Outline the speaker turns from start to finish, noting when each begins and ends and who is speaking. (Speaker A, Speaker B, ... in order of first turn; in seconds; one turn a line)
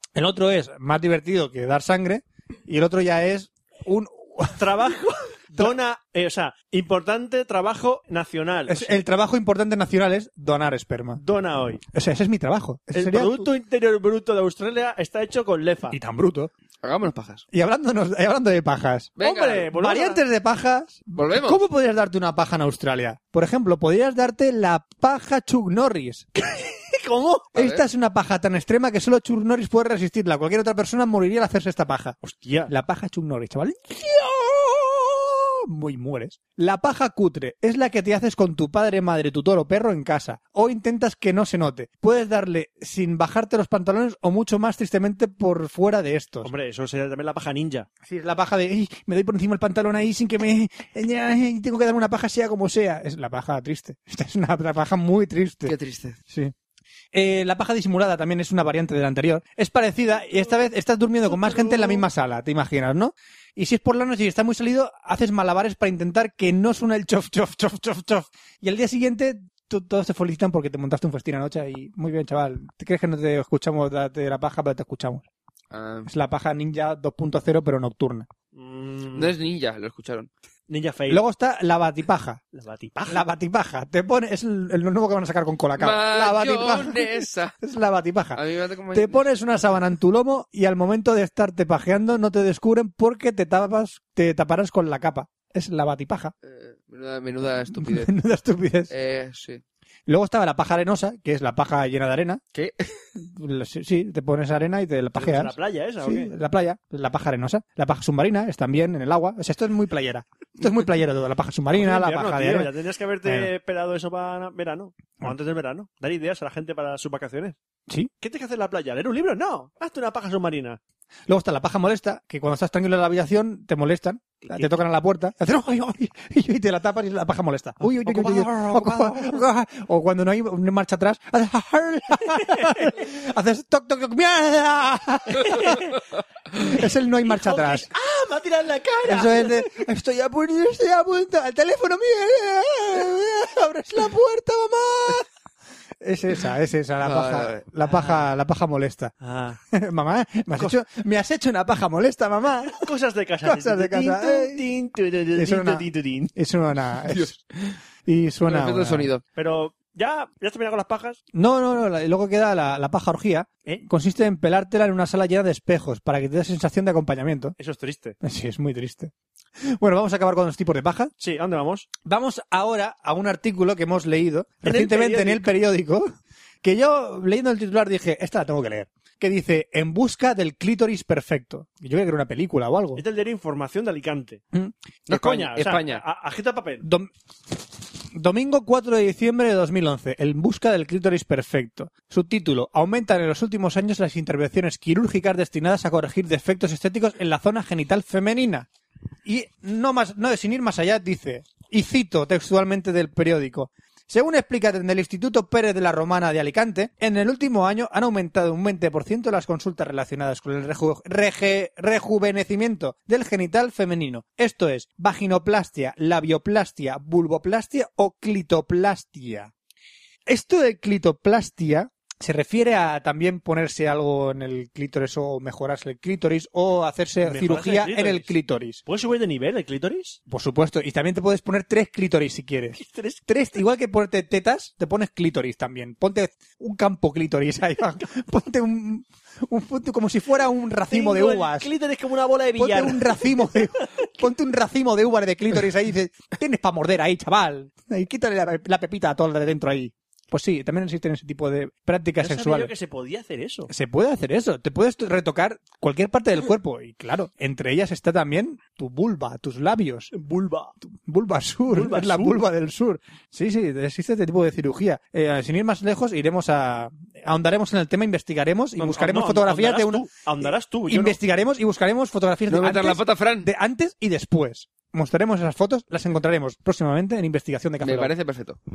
Speaker A: 0.1-4.7
Speaker B: 4.6-9.0
Speaker A: 8.7-11.2
Speaker B: 11.2-11.8
Speaker A: 11.9-13.5
Speaker B: 12.9-16.0
Speaker A: 15.9-16.5
Speaker C: 16.8-17.4
Speaker A: 17.5-19.2
Speaker C: 19.2-19.7
Speaker B: 19.2-20.2
Speaker A: 19.7-26.3
Speaker C: 21.1-21.6
Speaker B: 26.4-27.5
Speaker A: 27.5-32.2
Speaker C: 27.6-27.8
Speaker B: 32.2-32.7
Speaker A: 32.7-46.5
Speaker B: 46.4-47.9
Speaker A: 48.0-55.7
Speaker C: 55.6-56.2
Speaker A: 57.1-75.2
Speaker B: 61.5-61.9
Speaker C: 75.7-76.1
Speaker A: 76.0-78.3
Speaker B: 78.5-79.3
Speaker C: 79.1-80.3
Speaker B: 80.7-81.2
Speaker A: 81.1-82.4
Speaker B: 82.5-83.2
Speaker A: 83.1-88.4
Speaker C: 85.8-87.5
Speaker C: 88.3-89.2
Speaker A: 88.9-96.3
Speaker C: 96.4-98.1
Speaker A: 97.7-98.9
Speaker C: 98.9-99.6
Speaker A: 100.1-102.4
Speaker C: 102.5-103.0
Speaker A: 103.2-112.7
Speaker B: 105.1-106.3
Speaker B: 111.7-117.5
Speaker A: 113.2-113.5
Speaker B: 118.2-120.8
Speaker A: 121.3-135.9
Speaker B: 127.8-129.4
Speaker B: 132.3-132.9
Speaker B: 135.3-136.0
Speaker A: 136.6-137.9
Speaker B: 137.2-139.8
Speaker A: 139.1-145.3
Speaker A: 146.0-149.1
Speaker C: 147.0-147.6
Speaker B: 147.8-148.2
Speaker B: 149.2-149.6
Speaker A: 149.7-152.9
Speaker B: 152.7-156.3
Speaker A: 153.4-154.6
Speaker A: 155.3-157.4
Speaker C: 157.1-157.7
Speaker A: 158.1-159.1
Speaker C: 158.5-159.2
Speaker B: 159.3-161.2
Speaker A: 161.3-167.6
Speaker B: 167.6-168.2
Speaker A: 168.2-169.1
Speaker A: 169.7-171.1
Speaker B: 171.2-171.9
Speaker A: 172.0-176.1
Speaker B: 174.6-175.5
Speaker A: 176.6-183.0
Speaker B: 182.9-184.4
Speaker B: 185.1-186.9
Speaker C: 185.1-186.0
Speaker A: 186.8-187.1
Speaker A: 188.1-198.7
Speaker A: 199.2-219.5
Speaker A: 220.2-228.8
Speaker B: 227.2-228.3
Speaker B: 228.8-230.2
Speaker A: 230.3-241.7
Speaker B: 232.7-233.3
Speaker B: 240.9-244.1
Speaker A: 242.6-252.7
Speaker B: 252.2-253.7
Speaker A: 253.7-260.1
Speaker B: 260.1-260.7
Speaker A: 260.9-270.1
Speaker B: 261.7-262.4
Speaker B: 268.8-271.2
Speaker A: 270.9-278.1
Speaker C: 272.5-273.5
Speaker C: 277.8-278.6